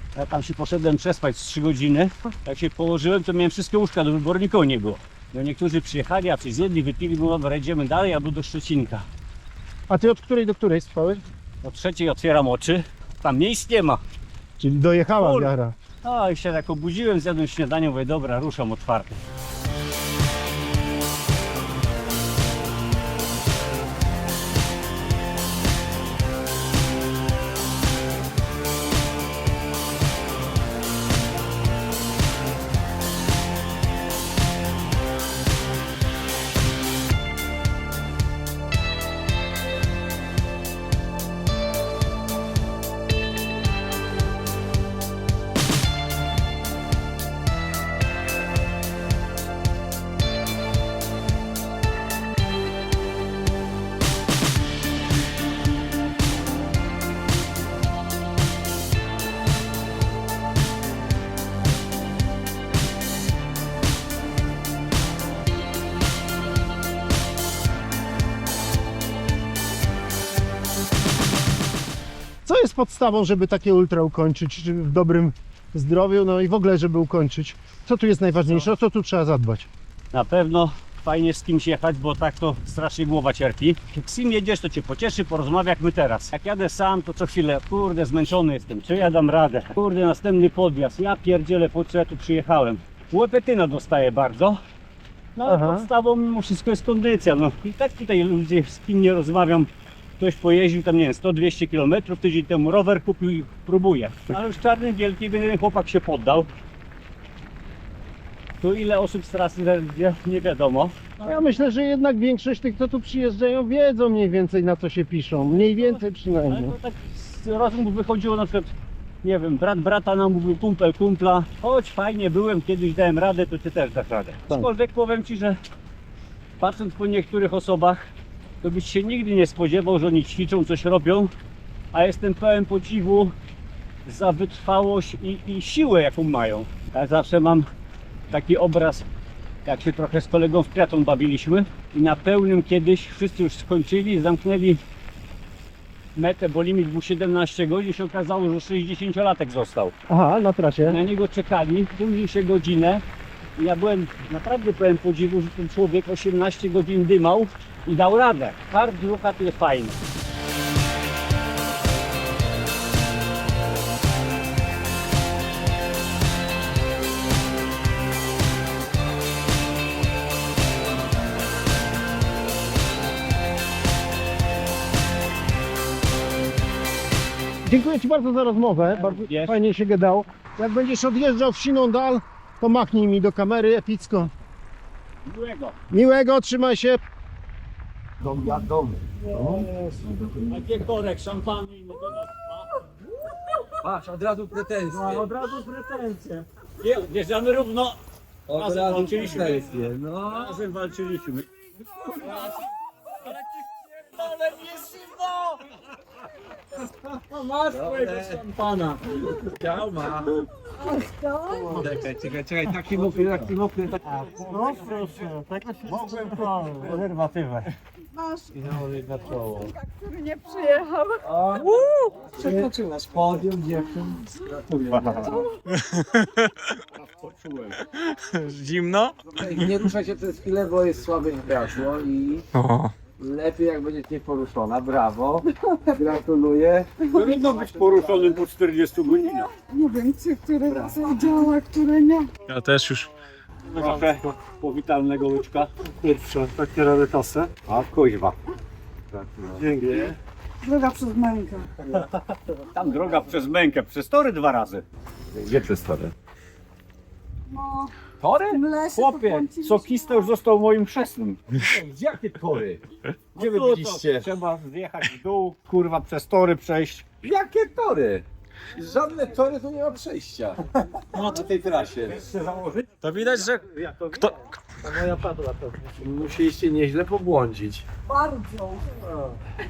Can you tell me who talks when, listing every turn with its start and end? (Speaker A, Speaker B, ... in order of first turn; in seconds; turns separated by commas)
Speaker A: 0.1-9.1, Speaker B: 9.9-11.2, Speaker A: 11.6-14.0, Speaker B: 14.6-15.8, Speaker A: 15.2-19.2, Speaker B: 72.5-79.7, Speaker A: 80.1-94.6, Speaker A: 95.3-106.5, Speaker B: 95.4-95.9, Speaker A: 108.6-111.2, Speaker B: 111.2-116.7, Speaker A: 115.6-118.7, Speaker A: 119.2-125.6, Speaker A: 126.6-128.0, Speaker A: 128.6-131.3, Speaker A: 131.9-133.3, Speaker A: 134.1-137.7, Speaker A: 138.3-139.1, Speaker A: 139.7-144.8, Speaker A: 146.2-149.9, Speaker B: 150.1-151.0, Speaker A: 150.8-153.0, Speaker A: 153.6-160.0, Speaker B: 177.7-184.3, Speaker A: 178.9-179.6, Speaker A: 185.2-185.8, Speaker B: 185.9-187.0, Speaker C: 188.2-189.7, Speaker A: 190.4-192.8, Speaker C: 193.8-195.3, Speaker A: 194.9-198.0, Speaker C: 198.5-200.6, Speaker A: 198.5-201.5, Speaker C: 202.2-202.6, Speaker A: 202.2-202.6, Speaker A: 203.4-205.7, Speaker A: 207.3-209.4, Speaker C: 207.7-208.4, Speaker C: 209.4-210.4, Speaker D: 211.1-211.6, Speaker C: 211.5-214.2, Speaker A: 214.0-217.7, Speaker D: 218.1-218.5, Speaker C: 218.5-219.7, Speaker A: 219.4-219.7, Speaker D: 219.7-221.2, Speaker C: 221.2-225.5, Speaker E: 221.6-222.1, Speaker A: 224.9-225.3, Speaker E: 225.7-226.6, Speaker C: 227.2-227.8, Speaker E: 228.0-229.8, Speaker C: 229.3-232.5, Speaker E: 232.6-233.1, Speaker C: 233.1-237.1, Speaker A: 237.1-239.5, Speaker D: 239.6-242.3, Speaker E: 242.5-243.1, Speaker A: 243.7-245.7, Speaker B: 246.0-247.5, Speaker A: 247.6-248.3, Speaker C: 249.2-250.2, Speaker B: 249.6-250.0, Speaker D: 250.6-251.7, Speaker A: 252.6-254.8, Speaker C: 255.3-256.1, Speaker D: 257.5-257.9, Speaker C: 258.2-258.7, Speaker D: 258.5-260.3, Speaker A: 258.9-261.4, Speaker C: 261.5-264.3, Speaker A: 263.4-267.1, Speaker C: 267.2-268.2, Speaker C: 268.7-274.3, Speaker C: 274.8-277.9, Speaker D: 278.1-279.0